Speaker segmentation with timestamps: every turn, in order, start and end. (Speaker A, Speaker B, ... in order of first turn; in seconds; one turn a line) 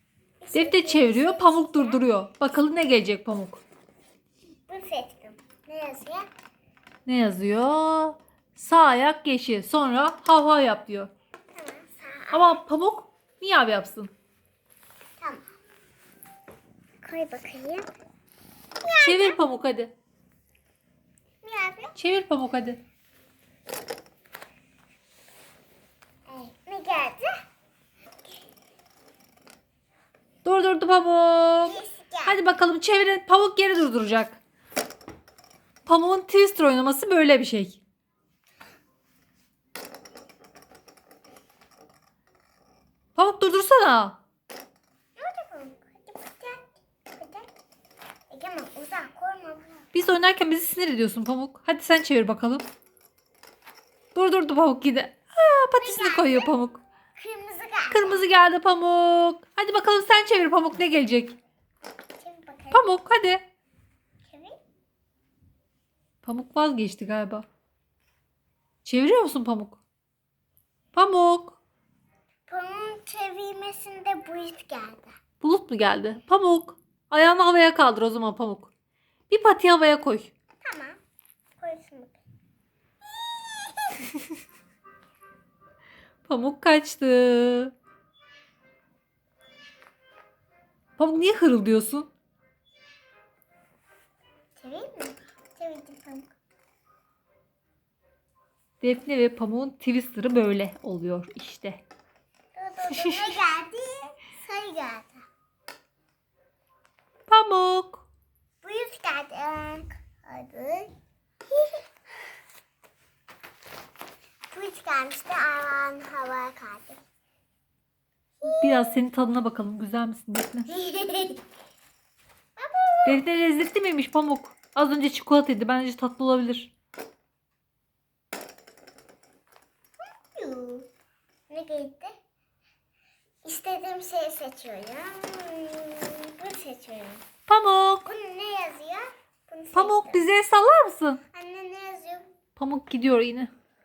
Speaker A: 0.4-2.0
Speaker B: 0.5-3.6
Speaker A: 4.7-6.3
Speaker B: 7.0-11.1
Speaker A: 11.5-12.6
Speaker B: 12.3-14.1
Speaker A: 15.2-15.4
Speaker A: 17.0-17.9
Speaker A: 18.8-19.4
Speaker B: 19.0-19.9
Speaker A: 21.4-22.0
Speaker B: 21.9-22.8
Speaker A: 26.3-27.3
Speaker B: 30.4-34.4
Speaker A: 31.6-32.4
Speaker B: 35.9-37.8
Speaker B: 43.1-44.2
Speaker A: 45.1-47.5
Speaker A: 48.3-49.9
Speaker B: 49.9-52.6
Speaker B: 54.1-56.8
Speaker A: 55.8-56.5
Speaker A: 57.1-58.2
Speaker B: 57.9-61.4
Speaker A: 62.2-62.8
Speaker B: 62.7-63.4
Speaker A: 64.2-64.5
Speaker B: 66.2-67.5
Speaker B: 68.8-69.8
Speaker B: 70.9-71.6
Speaker A: 72.5-75.2
Speaker B: 75.4-78.7
Speaker B: 79.3-80.3
Speaker A: 80.6-81.0
Speaker A: 81.6-82.2
Speaker A: 83.5-84.1
Speaker B: 86.2-87.7
Speaker B: 91.0-92.1
Speaker A: 94.6-96.3
Speaker B: 98.8-101.8
Speaker A: 102.5-105.2
Speaker B: 102.9-103.4
Speaker B: 107.3-108.0
Speaker A: 108.6-110.9
Speaker A: 111.5-111.8
Speaker A: 114.5-117.0
Speaker A: 118.4-118.8
Speaker B: 118.5-120.7
Speaker A: 120.7-121.4
Speaker A: 122.6-123.2
Speaker B: 123.0-126.7
Speaker A: 130.3-130.9
Speaker A: 131.5-132.1
Speaker A: 133.4-137.2
Speaker B: 137.5-138.1
Speaker A: 138.0-140.3
Speaker B: 139.7-141.2
Speaker A: 141.3-142.3
Speaker B: 142.6-143.5